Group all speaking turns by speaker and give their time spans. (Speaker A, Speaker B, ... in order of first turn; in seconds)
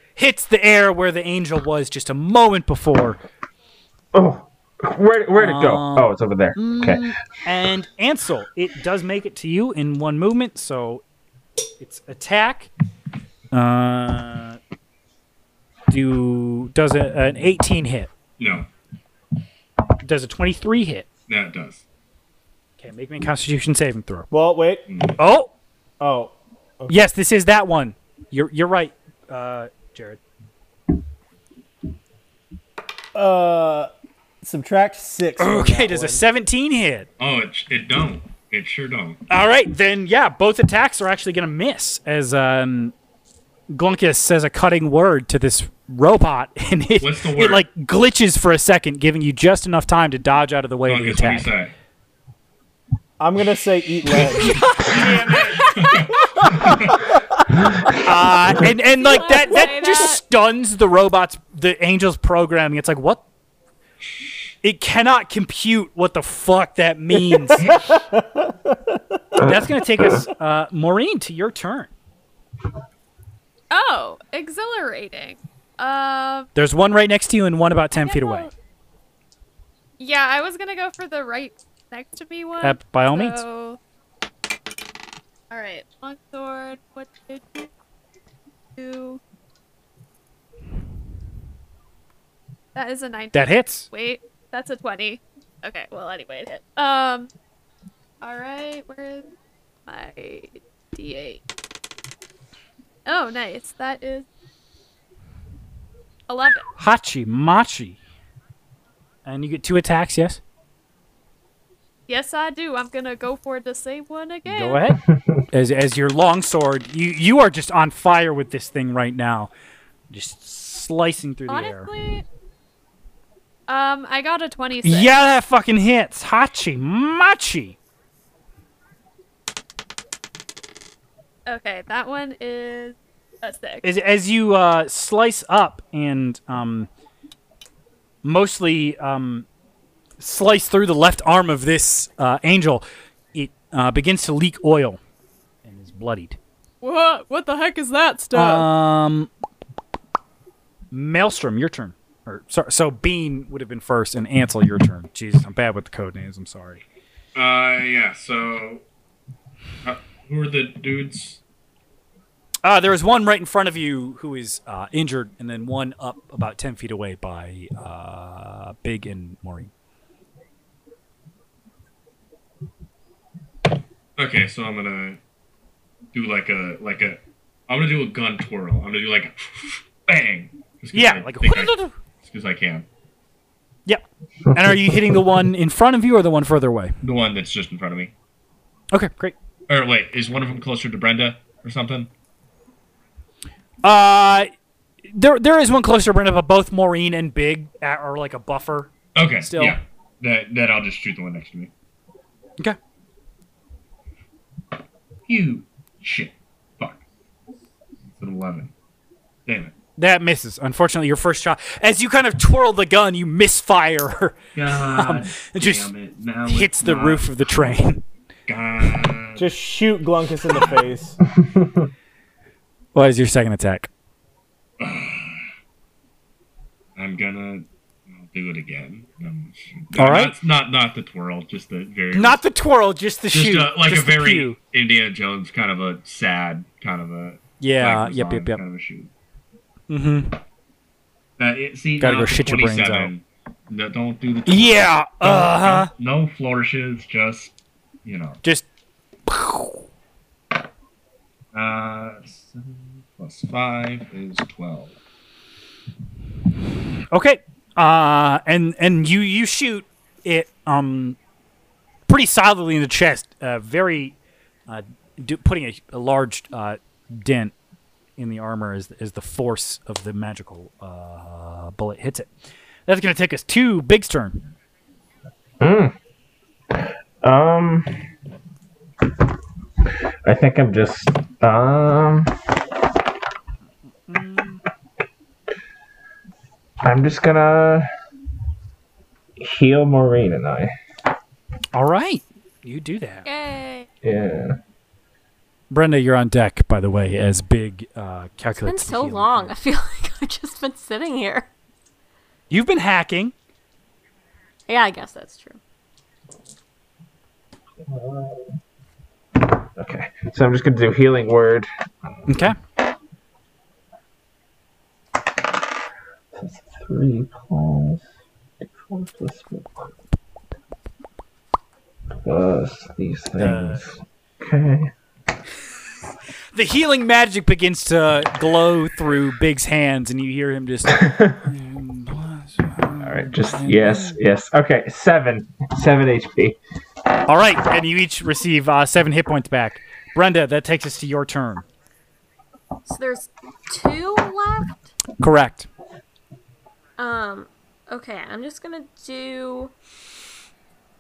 Speaker A: 0.2-3.2, 5.4-11.0, 11.8-12.7, 13.5-14.6, 15.9-18.1, 20.0-21.1, 22.8-24.3, 25.2-25.5, 26.9-30.2, 35.4-37.1, 39.3-42.9, 43.7-51.5, 54.1-56.0, 57.9-63.2, 64.6-67.7, 69.4-71.9, 76.5-78.5, 82.6-83.4, 93.3-93.9, 106.8-108.0, 109.3-110.4, 114.5-115.0, 115.5-119.5, 120.1-121.9, 124.8-127.8, 133.8-136.9, 138.2-139.5, 140.2-145.0, 145.7-146.4, 148.3-149.3, 150.9-156.8, 162.6-169.7, 180.9-181.9, 183.9-186.9, 188.9-189.4, 193.8-194.5, 195.1-199.8, 210.0-215.9, 216.5-218.0, 222.9-223.9, 230.0-230.3, 232.1-234.6, 237.6-238.6, 239.9-240.4, 242.0-243.1, 244.5-245.9, 249.3-249.8, 257.1-261.2, 262.1-264.2, 264.7-267.5, 268.2-272.3, 272.9-274.4, 284.1-284.6, 291.7-293.2, 295.7-299.5, 302.5-303.3, 312.3-312.6, 323.4-323.9, 326.5-334.2, 337.3-341.6, 345.2-345.7
Speaker B: 4.1-7.0, 69.4-70.2, 184.6-184.8, 275.6-275.9, 276.7-278.0, 280.2-282.4, 286.8-287.9, 289.4-290.7, 294.0-294.6, 307.9-308.5, 309.8-311.7, 316.3-318.0, 318.6-319.9, 322.2-324.9, 331.1-331.3, 333.0-336.6
Speaker C: 18.4-18.7, 21.3-21.8, 24.9-25.2, 37.2-39.2, 47.0-47.6, 50.9-51.7, 55.7-57.1, 157.3-158.8, 159.8-161.4, 174.2-175.2, 176.1-182.9, 187.0-188.1, 189.7-192.1, 199.2-201.7, 205.3-207.0, 208.1-208.7, 209.5-209.7, 214.6-217.7, 218.5-219.5, 220.5-220.8, 224.8-225.4, 227.0-232.4, 233.3-239.1, 241.4-247.5, 248.1-248.4, 251.5-254.9
Speaker D: 24.3-24.9, 26.0-27.0, 33.1-33.9, 34.4-36.2, 53.2-54.6, 67.5-69.2, 219.4-221.2
Speaker E: 55.3-56.1, 58.6-60.2, 73.7-76.5, 78.0-78.5, 80.0-83.8, 85.5-87.7, 88.8-89.2, 92.8-97.3, 98.2-99.3, 99.9-101.4, 103.1-104.3, 106.3-106.7, 112.1-114.9, 121.5-122.2, 123.7-125.1, 131.5-133.9, 146.8-148.7, 293.2-293.9
Speaker F: 298.6-301.5, 304.7-305.6, 342.9-344.9, 347.0-349.7